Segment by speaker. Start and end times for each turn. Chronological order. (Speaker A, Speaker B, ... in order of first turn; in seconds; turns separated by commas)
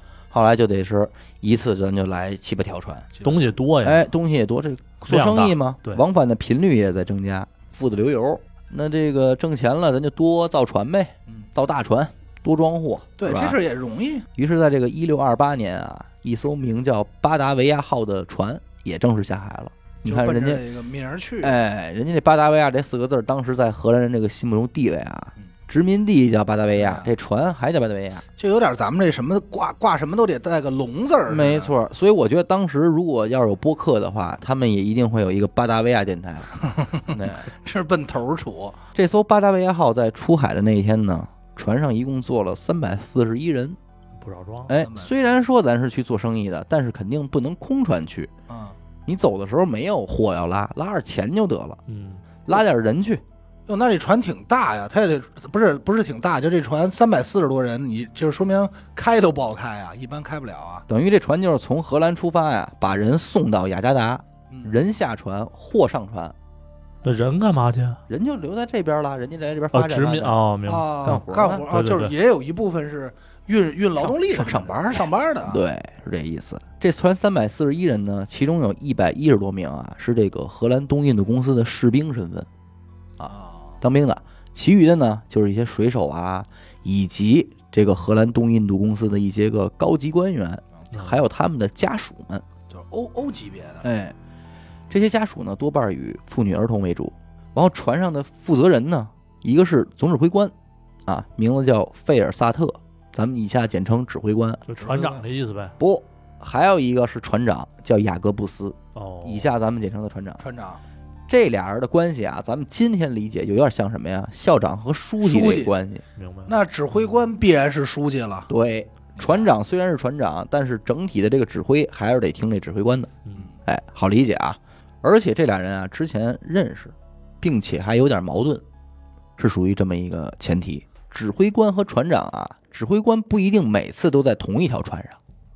Speaker A: 0.3-3.1, Speaker B: 3.1-3.5, Speaker C: 3.2-4.1, Speaker A: 3.8-13.6, Speaker C: 5.1-6.0, Speaker B: 13.2-14.3, Speaker A: 14.3-20.6, Speaker B: 20.1-21.5, Speaker A: 21.4-28.2, Speaker B: 26.7-27.1, Speaker B: 28.4-31.7, Speaker A: 31.3-37.5, Speaker B: 36.7-38.8, Speaker A: 39.0-43.8, Speaker C: 44.2-44.7, Speaker A: 44.7-48.3, Speaker B: 44.8-45.2, Speaker B: 48.5-48.8, Speaker A: 49.1-51.8, Speaker C: 51.9-52.2, Speaker A: 52.5-53.2, Speaker B: 53.7-60.9, Speaker A: 60.9-66.3, Speaker B: 64.5-64.8, Speaker C: 67.0-68.0, Speaker A: 68.1-70.4, Speaker C: 69.7-72.1, Speaker B: 70.7-75.6, Speaker A: 71.0-71.7, Speaker A: 74.2-82.5, Speaker A: 83.2-92.4, Speaker B: 83.3-83.7, Speaker C: 90.9-91.2, Speaker B: 92.7-93.9, Speaker A: 93.8-94.2, Speaker A: 94.9-100.5, Speaker A: 101.1-104.6, Speaker C: 104.7-105.8, Speaker B: 104.8-105.2, Speaker A: 105.8-110.4, Speaker C: 109.0-109.5, Speaker B: 110.4-110.8, Speaker A: 111.3-116.0, Speaker B: 115.2-115.7, Speaker C: 116.2-116.6, Speaker B: 116.5-118.5, Speaker A: 118.5-123.1, Speaker B: 119.2-119.5, Speaker A: 123.7-128.6, Speaker A: 129.4-135.2